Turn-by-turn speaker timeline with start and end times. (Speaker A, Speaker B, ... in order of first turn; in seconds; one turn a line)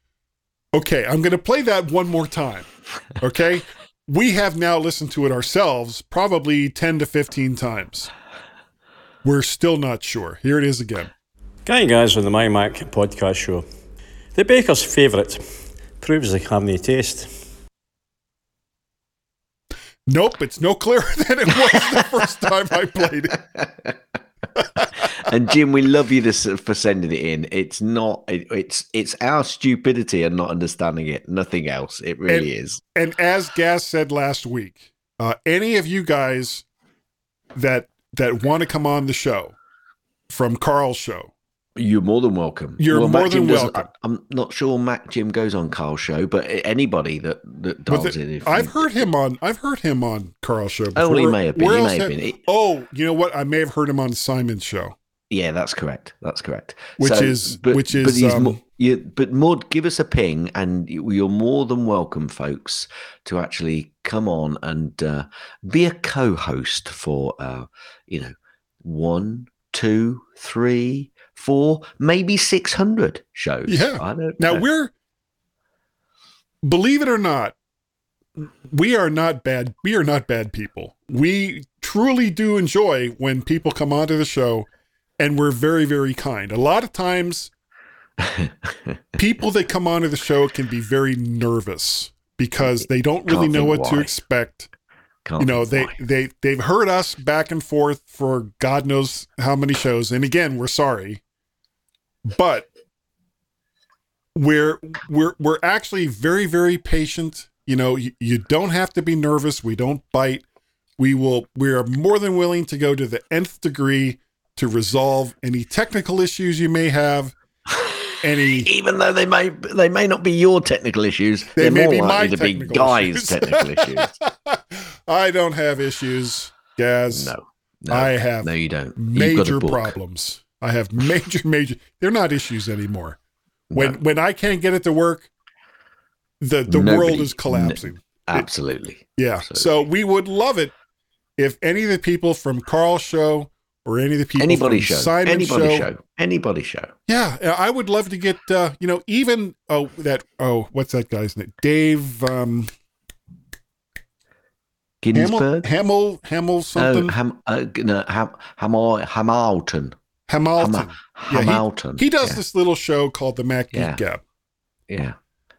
Speaker A: 0.7-8.1
Speaker A: 9.2-11.1
Speaker B: 11.7-13.7
Speaker B: 14.3-17.3
Speaker A: 20.1-23.4
Speaker C: 23.5-23.9
Speaker C: 25.0-32.8
Speaker A: 32.3-36.6
Speaker A: 37.5-39.6
Speaker A: 40.3-41.3
Speaker C: 41.8-48.9
Speaker A: 42.8-43.9
Speaker A: 47.9-55.0
Speaker C: 51.0-52.4
Speaker C: 55.3-74.7
Speaker A: 57.0-58.6
Speaker A: 73.7-74.9
Speaker A: 76.6-77.5
Speaker A: 78.4-84.7
Speaker A: 85.2-87.5
Speaker C: 88.2-89.0
Speaker A: 89.2-94.7
Speaker C: 92.6-94.2
Speaker C: 95.2-96.0
Speaker A: 95.4-101.2
Speaker A: 102.3-102.7
Speaker A: 104.3-110.5
Speaker A: 111.0-117.3
Speaker C: 117.7-118.0
Speaker A: 118.2-118.7
Speaker C: 118.6-124.2
Speaker A: 121.6-127.3
Speaker C: 127.1-129.9
Speaker A: 127.9-133.2
Speaker C: 133.7-134.0
Speaker A: 133.7-135.3
Speaker A: 136.4-138.5
Speaker C: 136.7-139.8
Speaker A: 139.2-140.7
Speaker A: 141.4-145.9
Speaker C: 144.4-146.9
Speaker A: 147.1-152.7
Speaker C: 155.0-155.7
Speaker A: 155.1-157.2
Speaker C: 156.8-160.0
Speaker A: 160.3-164.2
Speaker C: 160.6-162.4
Speaker C: 163.7-164.0
Speaker C: 164.9-165.2